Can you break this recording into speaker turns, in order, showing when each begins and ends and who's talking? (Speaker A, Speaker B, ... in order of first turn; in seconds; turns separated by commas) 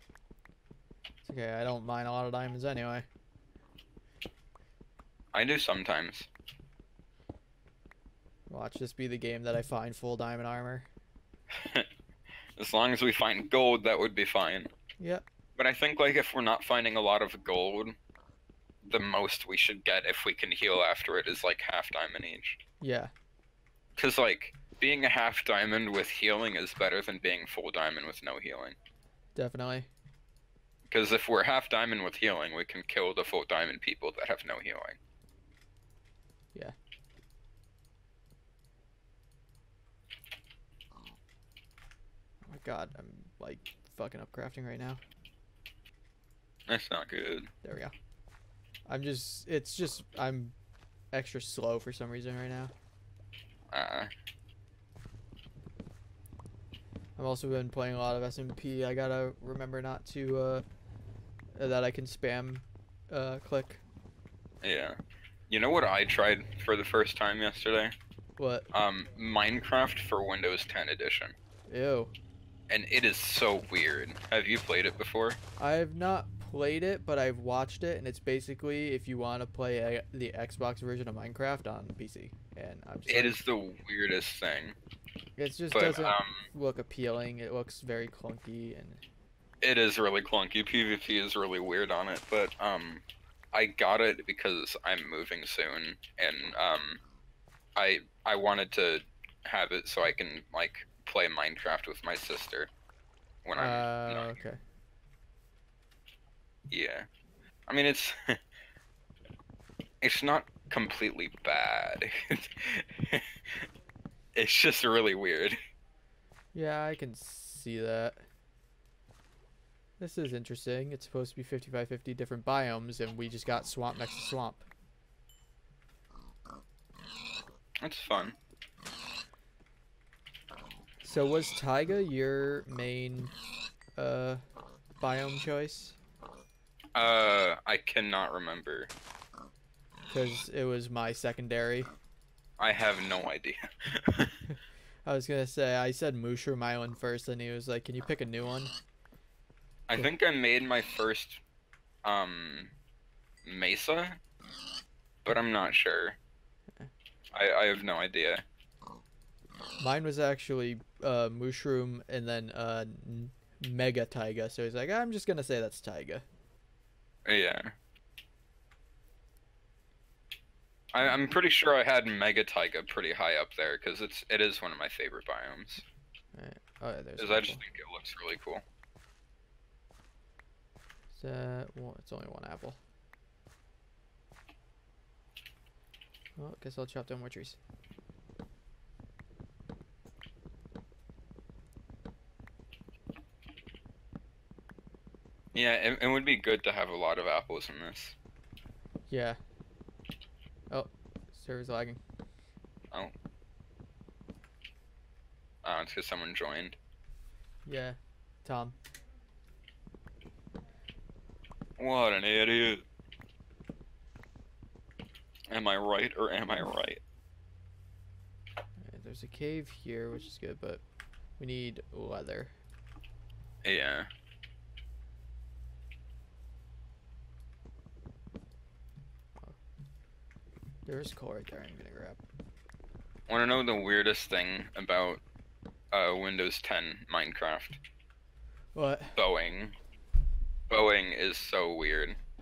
Speaker A: 1.2-3.1, Speaker B: 5.3-6.3, Speaker A: 8.5-10.9, Speaker B: 11.5-11.9, Speaker B: 12.6-14.7, Speaker A: 15.0-15.2, Speaker B: 15.6-18.0, Speaker B: 18.9-22.6, Speaker A: 22.8-23.1, Speaker B: 24.0-28.8, Speaker A: 29.4-29.9, Speaker B: 30.9-35.0, Speaker A: 42.5-45.0, Speaker B: 46.7-47.5, Speaker A: 47.6-47.9, Speaker A: 48.9-50.5, Speaker A: 51.1-52.7, Speaker B: 53.7-54.1, Speaker A: 57.2-60.6, Speaker A: 61.5-63.8, Speaker B: 64.6-65.0, Speaker B: 65.5-68.0, Speaker A: 68.4-68.7, Speaker B: 68.7-71.4, Speaker A: 71.7-72.1, Speaker B: 72.7-75.4, Speaker A: 75.6-83.4, Speaker B: 83.1-84.8, Speaker A: 85.4-89.0, Speaker B: 85.7-86.5, Speaker B: 89.6-97.0, Speaker B: 97.8-102.7, Speaker B: 103.5-104.3, Speaker A: 103.5-104.6, Speaker B: 106.7-107.1, Speaker B: 107.7-108.4, Speaker B: 110.0-113.6, Speaker B: 114.3-115.6, Speaker A: 116.5-118.2, Speaker A: 120.0-124.7, Speaker B: 127.8-128.4, Speaker A: 131.0-133.3, Speaker A: 134.0-134.4, Speaker A: 135.0-136.0, Speaker B: 136.9-138.9, Speaker A: 140.1-141.9, Speaker B: 142.6-144.4, Speaker A: 144.5-148.7, Speaker B: 149.9-151.4, Speaker B: 152.0-152.7, Speaker B: 153.4-154.2, Speaker B: 155.2-156.2, Speaker B: 157.3-158.4, Speaker A: 159.8-166.2, Speaker B: 167.3-167.8, Speaker B: 170.9-175.8, Speaker A: 176.3-177.6, Speaker B: 177.2-178.6, Speaker A: 181.1-182.8, Speaker A: 186.4-187.6, Speaker B: 195.5-198.2, Speaker A: 199.1-199.4, Speaker A: 200.7-202.0, Speaker B: 205.6-206.8, Speaker A: 207.7-208.8, Speaker B: 211.8-212.8, Speaker B: 215.5-217.0, Speaker A: 218.8-220.8, Speaker A: 221.4-222.5, Speaker B: 223.6-224.1, Speaker A: 230.8-232.2, Speaker B: 233.3-235.2, Speaker B: 235.9-237.8, Speaker A: 238.8-239.2, Speaker B: 239.2-239.8, Speaker B: 240.7-242.2